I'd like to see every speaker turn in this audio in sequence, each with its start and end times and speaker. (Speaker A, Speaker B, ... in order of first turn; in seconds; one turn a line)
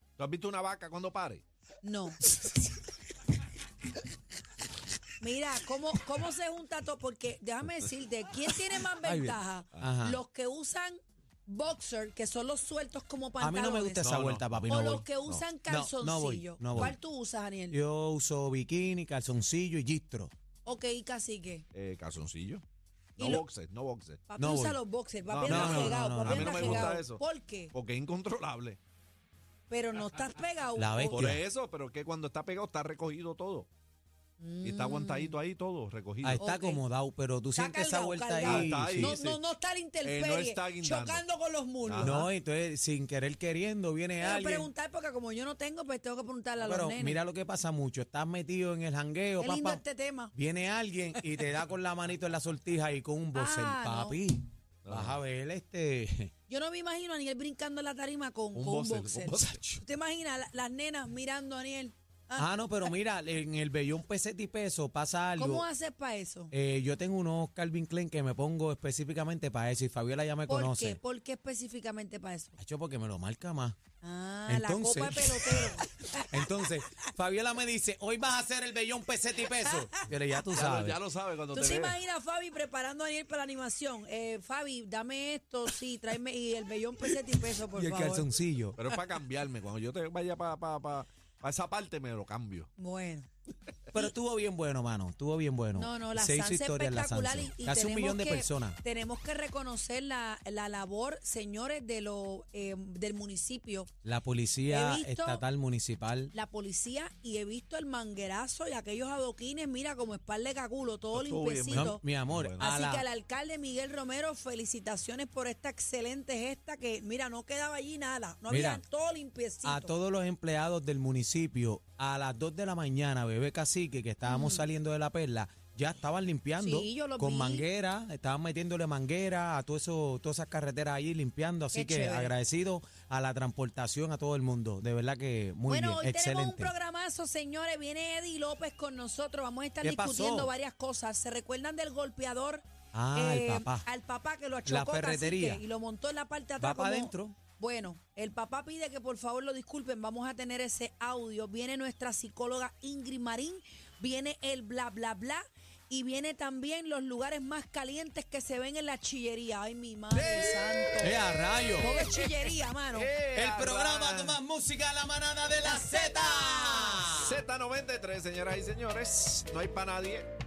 Speaker A: 0.2-1.4
Speaker B: 1.8-2.3
Speaker B: 5.2-14.1
Speaker C: 9.0-10.2
Speaker C: 13.4-15.1
Speaker A: 14.0-15.4
Speaker B: 14.7-17.8
Speaker C: 15.7-17.0
Speaker C: 17.7-20.3
Speaker B: 20.6-21.6
Speaker A: 21.7-22.6
Speaker A: 23.2-24.2
Speaker B: 23.2-23.5
Speaker B: 24.3-27.7
Speaker C: 24.4-24.8
Speaker A: 25.3-28.8
Speaker C: 25.4-26.9
Speaker B: 29.7-31.2
Speaker C: 30.8-31.4
Speaker A: 31.1-33.7
Speaker B: 34.4-35.4
Speaker A: 34.6-36.5
Speaker C: 36.2-39.2
Speaker B: 36.4-36.8
Speaker B: 37.5-42.3
Speaker A: 38.4-39.4
Speaker A: 40.0-41.2
Speaker A: 41.8-42.3
Speaker C: 42.0-44.7
Speaker B: 44.2-47.2
Speaker C: 46.6-49.8
Speaker B: 49.4-50.3
Speaker C: 50.3-56.3
Speaker B: 53.3-54.2
Speaker A: 54.9-55.2
Speaker B: 56.5-62.9
Speaker A: 58.5-59.8
Speaker C: 62.4-65.7
Speaker B: 65.4-66.5
Speaker C: 66.5-71.0
Speaker B: 70.5-72.6
Speaker C: 72.6-73.8
Speaker B: 74.0-76.6
Speaker C: 74.5-75.8
Speaker C: 76.3-81.0
Speaker B: 79.6-80.1
Speaker A: 80.5-82.0
Speaker B: 81.5-88.3
Speaker C: 87.7-88.8
Speaker A: 88.8-92.7
Speaker B: 92.8-93.3
Speaker C: 93.9-98.8
Speaker B: 95.8-103.9
Speaker C: 104.0-106.3
Speaker B: 104.7-105.4
Speaker B: 106.3-112.0
Speaker A: 111.1-112.7
Speaker C: 111.7-113.0
Speaker B: 112.6-119.9
Speaker C: 118.5-118.8
Speaker C: 119.6-136.7
Speaker B: 124.2-124.7
Speaker B: 126.6-127.7
Speaker B: 131.7-132.3
Speaker B: 135.7-161.2
Speaker C: 139.8-140.5
Speaker C: 142.9-143.9
Speaker C: 144.7-145.6
Speaker C: 146.6-147.4
Speaker A: 160.1-164.4
Speaker C: 161.0-161.9
Speaker B: 161.8-163.1
Speaker C: 163.3-167.4
Speaker B: 165.6-167.1
Speaker A: 167.1-170.3